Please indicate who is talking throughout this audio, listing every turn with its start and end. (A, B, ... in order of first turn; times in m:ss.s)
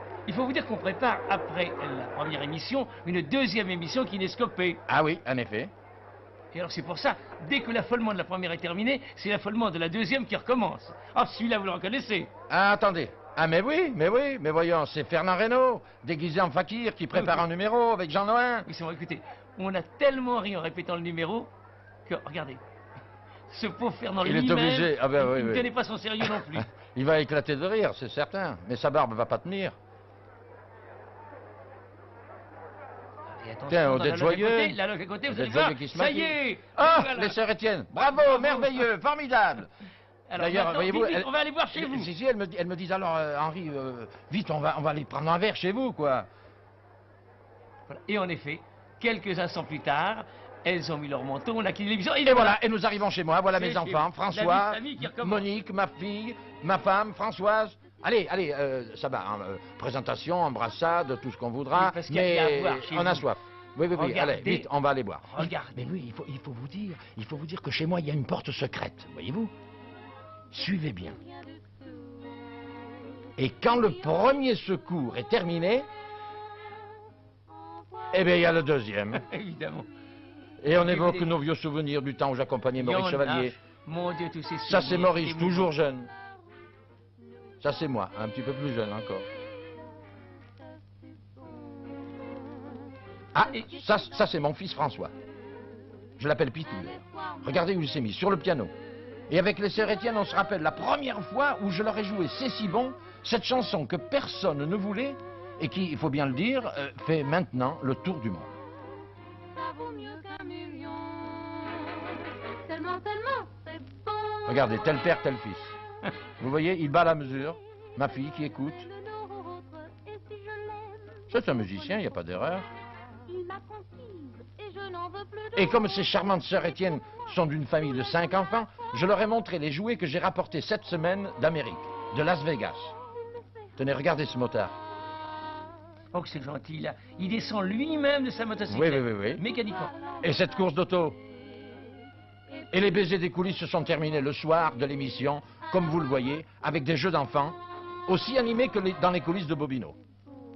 0:00.2-0:04.8 A
0:04.9-0:05.7 B
0:06.5-0:12.3 A
0:12.5-0:18.7 B
0:18.6-0:21.5 A
0:22.0-0:22.6 A
0:23.5-0:26.7 A
0:24.2-0:25.7 B
0:26.2-0:29.7 B
0:33.4-0:38.9 A
0:33.7-0:39.7 B
0:40.3-0:42.1 A
0:40.4-0:46.3 B
0:47.9-0:52.6 A
0:52.2-1:09.5 B
0:53.5-0:55.4 A
1:01.7-1:03.3 A
1:03.9-1:04.7 A
1:05.2-1:05.9 A
1:10.5-1:11.2 B
1:13.4-1:15.9 B
1:18.1-1:19.2 B
1:19.1-1:19.9 A
1:20.6-1:23.5 B
1:20.7-1:21.3 A
1:22.8-1:25.7 A
1:24.7-1:26.1 B
1:27.6-1:29.2 B
1:33.3-1:35.1 B
1:36.2-1:38.7 B
1:39.3-1:48.5 B
1:49.6-1:54.4 C
1:54.5-1:55.8 B
1:56.4-1:58.9 B
1:59.0-2:01.2 C
2:01.3-2:02.7 B
2:03.3-2:05.5 C
2:05.5-2:12.9 B
2:13.8-2:14.8 B
2:16.1-2:20.0 A
2:18.7-2:19.4 B
2:20.2-2:21.2 B
2:22.7-2:30.0 B